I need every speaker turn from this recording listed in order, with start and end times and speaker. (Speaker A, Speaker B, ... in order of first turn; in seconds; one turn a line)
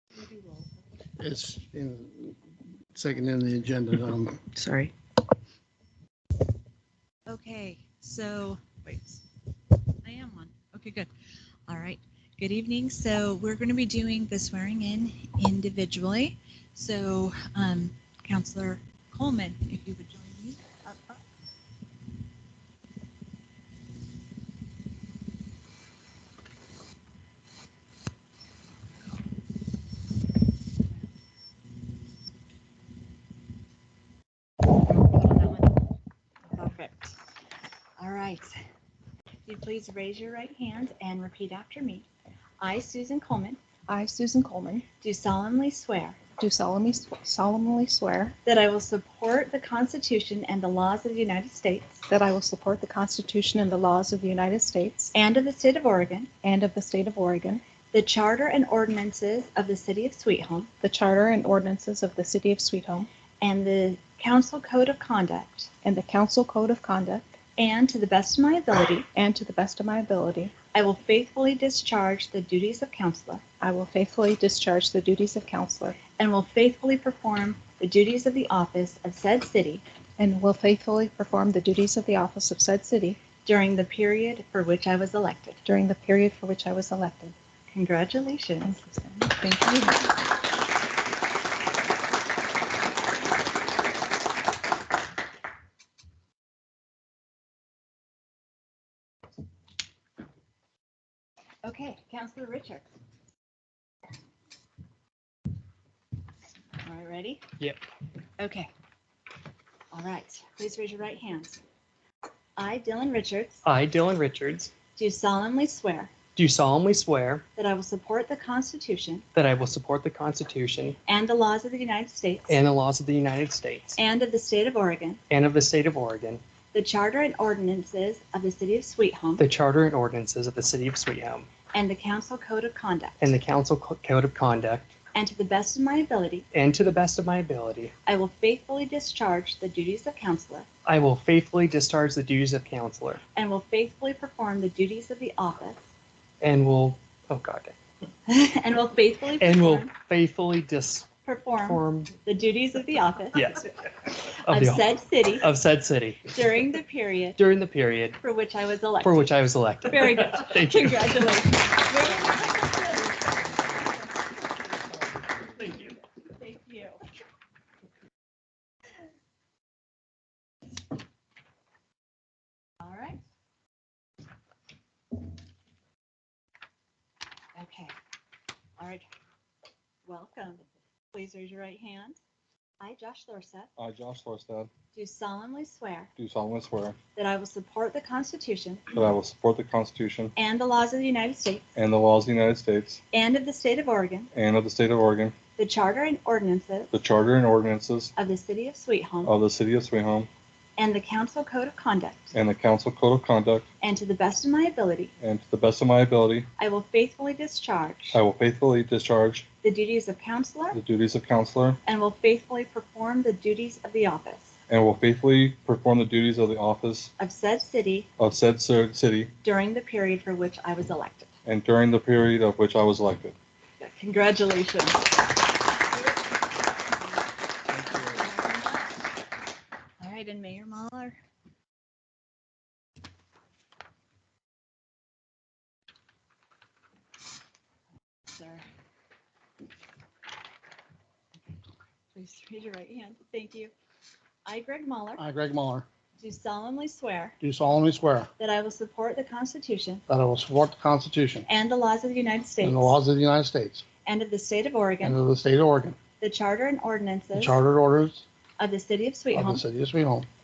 Speaker A: 1.2-2.4
Speaker A: 2.9-4.6
Speaker B: 7.3-9.2
Speaker B: 10.0-11.1
Speaker B: 11.7-21.2
Speaker B: 34.7-35.8
Speaker B: 36.5-37.1
Speaker B: 38.0-38.5
Speaker B: 39.5-42.1
Speaker B: 42.6-43.6
Speaker C: 43.9-44.9
Speaker B: 45.0-46.2
Speaker C: 46.4-48.3
Speaker B: 48.4-52.0
Speaker C: 52.1-55.1
Speaker B: 55.1-56.3
Speaker C: 56.4-57.6
Speaker B: 57.9-60.7
Speaker C: 60.8-63.1
Speaker B: 63.4-65.7
Speaker C: 65.8-67.3
Speaker B: 67.6-69.1
Speaker C: 69.1-70.5
Speaker B: 70.7-73.4
Speaker C: 73.6-76.0
Speaker B: 76.2-79.8
Speaker C: 80.2-83.2
Speaker B: 83.4-85.6
Speaker C: 85.6-87.3
Speaker B: 87.7-88.8
Speaker C: 88.6-90.1
Speaker B: 101.6-102.8
Speaker B: 106.8-107.4
Speaker B: 108.4-108.7
Speaker B: 109.9-111.6
Speaker B: 112.6-113.6
Speaker D: 113.6-114.7
Speaker B: 115.0-116.1
Speaker D: 116.3-117.4
Speaker B: 117.5-119.2
Speaker D: 119.3-121.0
Speaker B: 121.0-122.6
Speaker D: 122.5-124.0
Speaker B: 124.0-125.2
Speaker D: 125.3-126.4
Speaker B: 126.7-129.4
Speaker D: 129.4-131.5
Speaker B: 131.7-133.2
Speaker D: 133.2-134.9
Speaker B: 135.1-136.4
Speaker D: 136.5-137.9
Speaker B: 138.0-140.7
Speaker D: 140.8-143.2
Speaker B: 143.3-145.8
Speaker D: 146.4-147.7
Speaker B: 148.3-149.9
Speaker D: 149.4-151.1
Speaker B: 151.2-153.5
Speaker D: 151.6-152.1
Speaker D: 153.3-153.6
Speaker D: 154.3-156.3
Speaker B: 154.5-155.5
Speaker B: 156.3-157.4
Speaker D: 157.4-158.2
Speaker B: 158.2-159.3
Speaker D: 159.0-161.1
Speaker B: 159.8-163.7
Speaker B: 166.2-167.0
Speaker B: 172.8-173.2
Speaker B: 177.5-177.9
Speaker B: 178.8-179.1
Speaker B: 180.0-182.2
Speaker B: 182.8-183.7
Speaker E: 183.8-184.7
Speaker B: 184.9-186.1
Speaker E: 186.2-187.0
Speaker B: 187.2-188.9
Speaker E: 188.9-190.3
Speaker B: 190.3-191.7
Speaker E: 191.8-193.0
Speaker B: 193.1-194.3
Speaker E: 194.3-195.3
Speaker B: 195.6-196.9
Speaker E: 196.9-198.1
Speaker B: 198.1-199.3
Speaker E: 199.2-200.3
Speaker B: 200.8-202.3
Speaker E: 202.3-203.7
Speaker B: 203.8-205.1
Speaker E: 205.2-206.5
Speaker B: 206.6-208.2
Speaker E: 208.1-209.4
Speaker B: 209.6-210.8
Speaker E: 210.7-211.8
Speaker B: 211.8-214.5
Speaker E: 214.7-217.1
Speaker B: 217.2-218.1
Speaker E: 218.2-219.3
Speaker B: 219.4-221.3
Speaker E: 221.4-223.3
Speaker B: 223.8-225.0
Speaker B: 227.8-228.9
Speaker B: 230.0-231.2
Speaker B: 238.3-238.6
Speaker B: 242.1-243.7
Speaker B: 244.4-245.2
Speaker A: 245.2-245.9
Speaker B: 246.2-247.3
Speaker A: 247.4-248.3
Speaker B: 248.4-250.0
Speaker A: 250.1-251.4
Speaker B: 251.5-253.0
Speaker A: 252.6-253.8
Speaker B: 254.0-255.2
Speaker A: 255.0-256.0
Speaker B: 256.2-257.6
Speaker A: 257.3-258.2
Speaker B: 258.6-259.6
Speaker A: 259.3-260.3